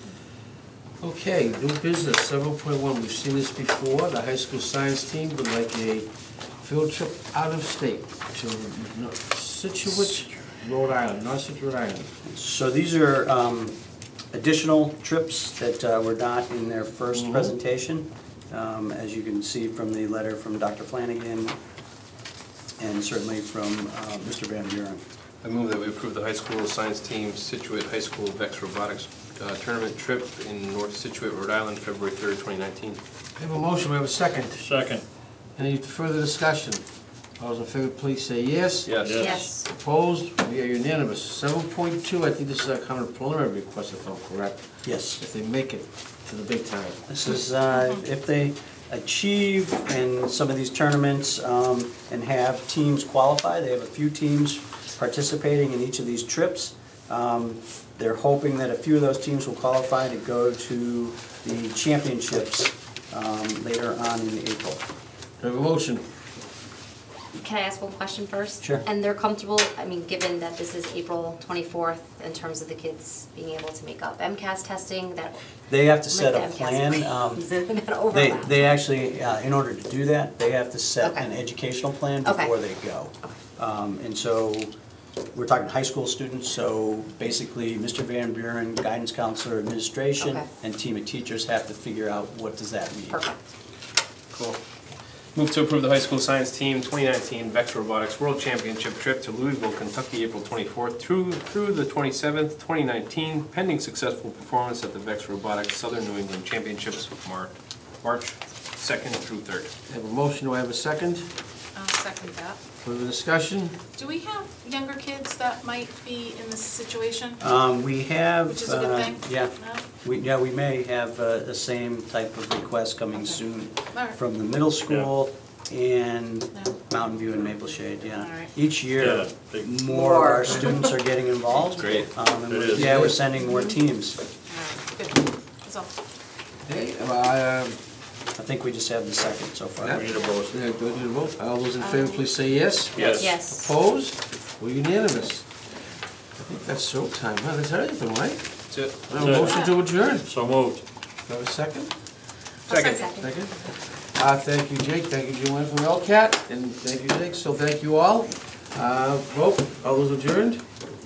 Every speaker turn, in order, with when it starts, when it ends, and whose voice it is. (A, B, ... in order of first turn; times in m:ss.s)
0:01.0-0:06.1 A
0:06.6-0:12.1 A
0:12.3-0:13.8 B
0:14.3-0:21.6 B
0:17.1-0:17.5 A
0:22.8-0:25.0 B
0:25.4-0:33.0 C
0:33.4-0:34.7 A
0:34.6-0:35.0 D
0:35.6-0:36.8 A
0:37.4-0:47.0 A
0:38.8-0:39.2 C
0:39.0-0:39.4 D
0:39.2-0:39.7 E
0:44.8-0:45.2 B
0:47.1-1:04.8 B
1:05.4-1:06.0 A
1:07.3-1:15.4 E
1:15.7-1:17.4 B
1:15.9-1:18.7 E
1:18.1-1:24.7 B
1:21.0-1:21.3 E
1:22.2-1:22.5 E
1:25.3-1:33.2 B
1:30.2-1:30.5 E
1:33.1-1:33.4 E
1:34.3-1:34.6 C
1:35.4-1:49.7 C
1:49.9-1:51.3 A
1:51.8-1:52.6 F
1:52.8-1:53.8 A
1:54.0-1:57.4 F
1:57.4-2:14.2 B
1:58.4-1:59.9 F
2:03.9-2:04.2 F
2:08.1-2:08.5 F
2:09.0-2:09.8 D
2:09.9-2:10.9 E
2:11.5-2:12.0 F
2:11.8-2:12.1 C
2:12.5-2:13.2 D
2:12.8-2:13.0 A
2:14.5-2:15.9 F
2:16.7-2:17.8 A
2:18.4-2:20.0 B
2:19.8-2:25.5 A
2:19.9-2:20.6 D
2:21.8-2:22.3 F
2:23.1-2:23.7 E
2:26.4-2:28.4 A
2:28.7-2:29.1 C
2:29.0-2:30.3 A
2:29.2-2:29.5 D
2:29.4-2:29.7 F
2:30.2-2:30.8 D
2:31.3-2:31.9 A
2:32.7-2:33.1 C
2:32.7-2:33.3 E
2:32.7-2:33.1 F
2:33.2-2:33.6 A
2:34.2-2:40.6 A